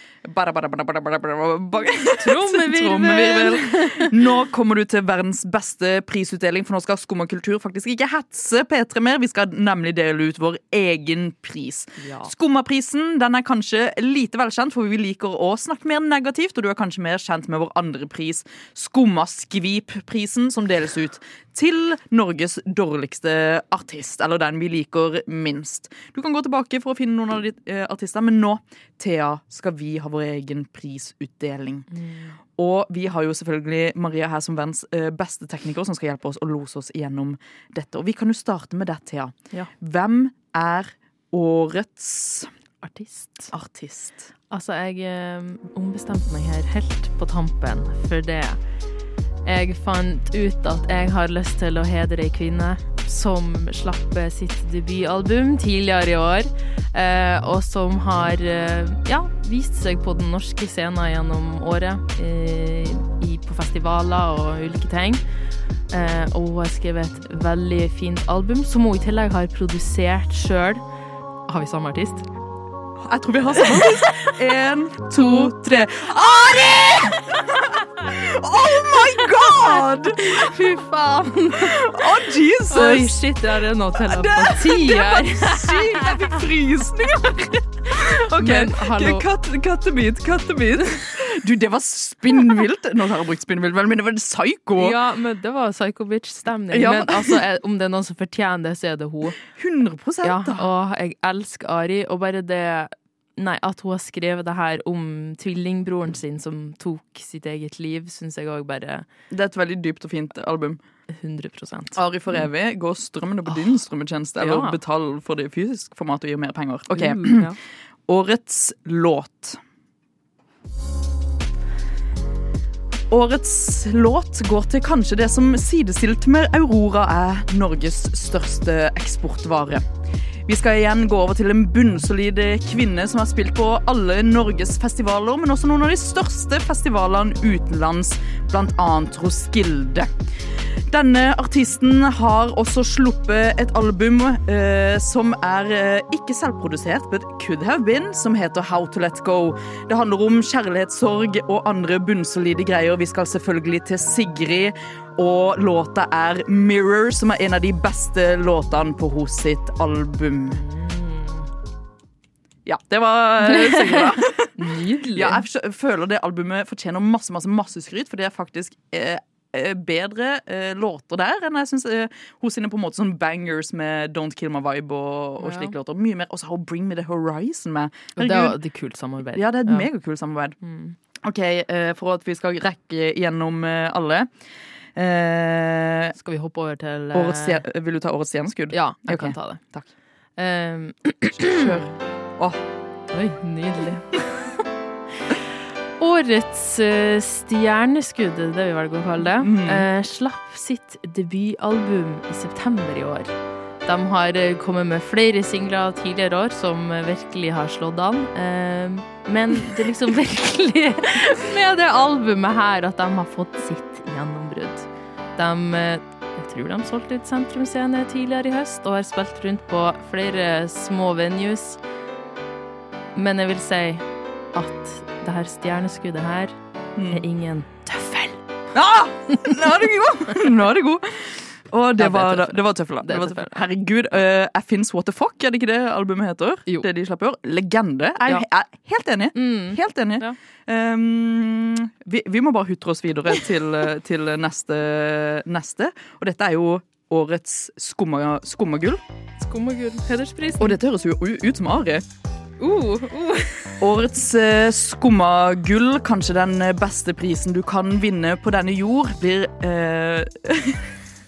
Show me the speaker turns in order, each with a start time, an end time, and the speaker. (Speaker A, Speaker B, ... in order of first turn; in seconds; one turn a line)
Speaker A: 0.2-31.9
Speaker B: 2.2-4.1
Speaker B: 12.0-12.3
Speaker B: 31.9-32.4
Speaker A: 32.6-42.5
Speaker B: 42.8-43.5
Speaker A: 43.5-44.3
Speaker B: 44.5-48.6
Speaker B: 49.4-65.2
Speaker B: 65.9-70.8
Speaker B: 71.5-72.2
Speaker A: 73.0-80.5
Speaker B: 73.7-74.3
Speaker B: 75.1-76.8
Speaker B: 79.5-81.8
Speaker A: 81.6-83.2
Speaker B: 82.7-86.2
Speaker A: 84.0-95.0
Speaker B: 87.9-89.2
Speaker B: 94.8-99.4
Speaker A: 96.7-97.4
Speaker A: 99.4-100.7
Speaker B: 100.2-109.0
Speaker A: 109.3-110.8
Speaker B: 111.1-112.4
Speaker A: 111.9-117.5
Speaker B: 114.4-114.8
Speaker B: 116.9-117.5
Speaker A: 118.1-119.6
Speaker A: 123.1-129.8
Speaker A: 130.5-140.1
Speaker A: 140.9-160.6
Speaker B: 160.5-161.5
Speaker A: 162.7-164.5
Speaker B: 163.5-165.4
Speaker A: 165.1-178.6
Speaker B: 175.4-175.7
Speaker B: 178.2-179.9
Speaker A: 179.3-180.6
Speaker B: 180.6-180.9
Speaker A: 181.2-184.3
Speaker A: 184.9-186.1
Speaker B: 186.2-187.6
Speaker A: 187.1-189.9
Speaker B: 188.7-189.6
Speaker B: 190.4-191.8
Speaker A: 191.3-192.6
Speaker B: 193.1-194.2
Speaker B: 196.0-203.3
Speaker A: 199.4-199.9
Speaker B: 203.8-221.8
Speaker B: 223.1-226.6
Speaker A: 226.9-227.2
Speaker B: 227.1-228.4
Speaker A: 228.7-249.0
Speaker B: 232.0-233.6
Speaker B: 239.3-240.3
Speaker B: 249.4-250.8
Speaker A: 250.6-252.0
Speaker B: 252.6-253.7
Speaker A: 253.8-260.8